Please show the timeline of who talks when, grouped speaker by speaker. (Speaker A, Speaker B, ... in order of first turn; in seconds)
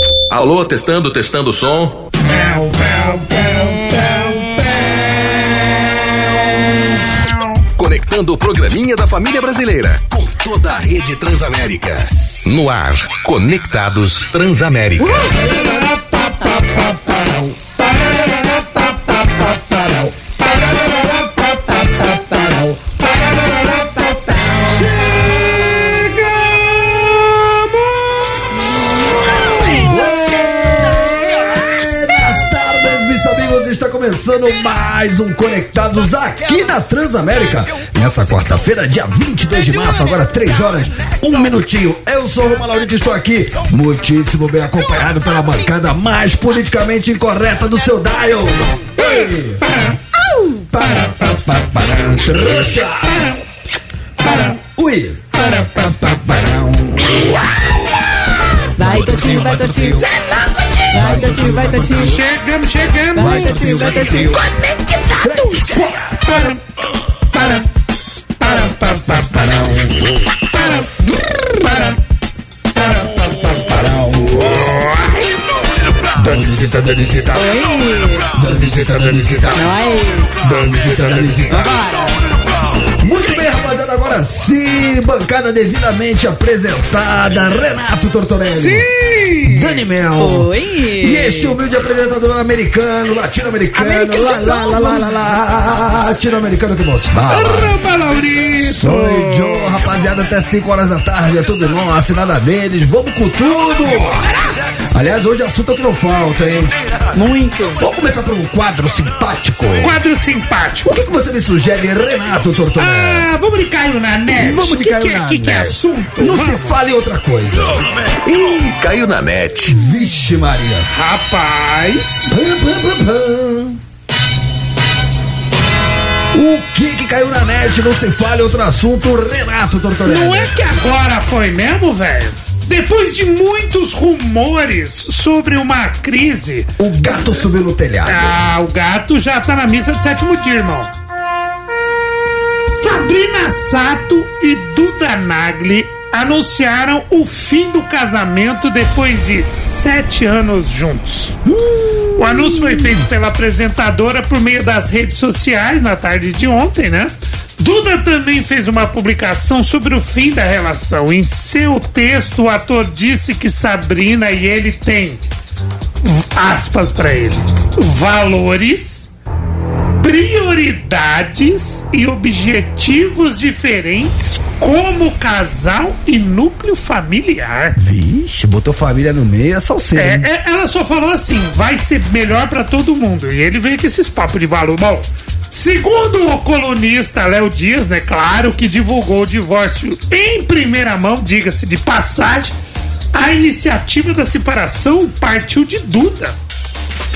Speaker A: 0.3-1.9, 7.8-15.3, 118.0-119.8
Speaker B: 2.3-5.0, 15.6-17.1, 25.6-27.9, 29.6-30.1, 49.7-50.0, 50.9-51.3, 53.1-53.4, 54.2-54.5, 55.5-55.7, 61.9-64.4, 65.4-66.6, 67.3-67.7, 68.4-69.7, 70.5-72.0, 72.8-73.8, 74.3-75.6, 76.2-76.8, 78.4-79.6, 80.5-81.4, 88.5-89.8, 97.3-99.8, 104.1-104.5, 109.8-111.0, 112.8-116.8, 120.9-122.3, 130.1-137.4, 138.1-140.9, 142.7-151.4, 152.2-165.2, 166.0-169.1, 170.0-177.8, 180.0-192.6, 193.1-196.4
Speaker C: 15.0-15.6, 21.7-22.6, 24.0-24.7, 50.2-50.6, 58.8-60.0, 60.9-62.2, 63.1-64.3, 77.3-78.3, 79.5-80.3, 81.5-82.2, 90.2-91.6, 93.8-95.1, 107.1-107.8
Speaker D: 24.7-25.4, 29.6-49.7, 50.7-53.2, 54.2-57.5, 58.8-60.1, 60.9-62.2, 63.2-64.4, 65.2-66.3, 69.1-70.1, 73.7-74.9, 76.2-77.5, 78.3-79.7, 80.4-81.7, 83.0-88.9, 89.4-97.8, 98.6-104.3, 104.9-106.7, 107.8-110.0, 110.9-113.3, 114.3-117.8, 119.7-120.9, 122.3-123.8, 126.3-130.6, 136.8-138.3, 151.5-153.1, 177.8-180.3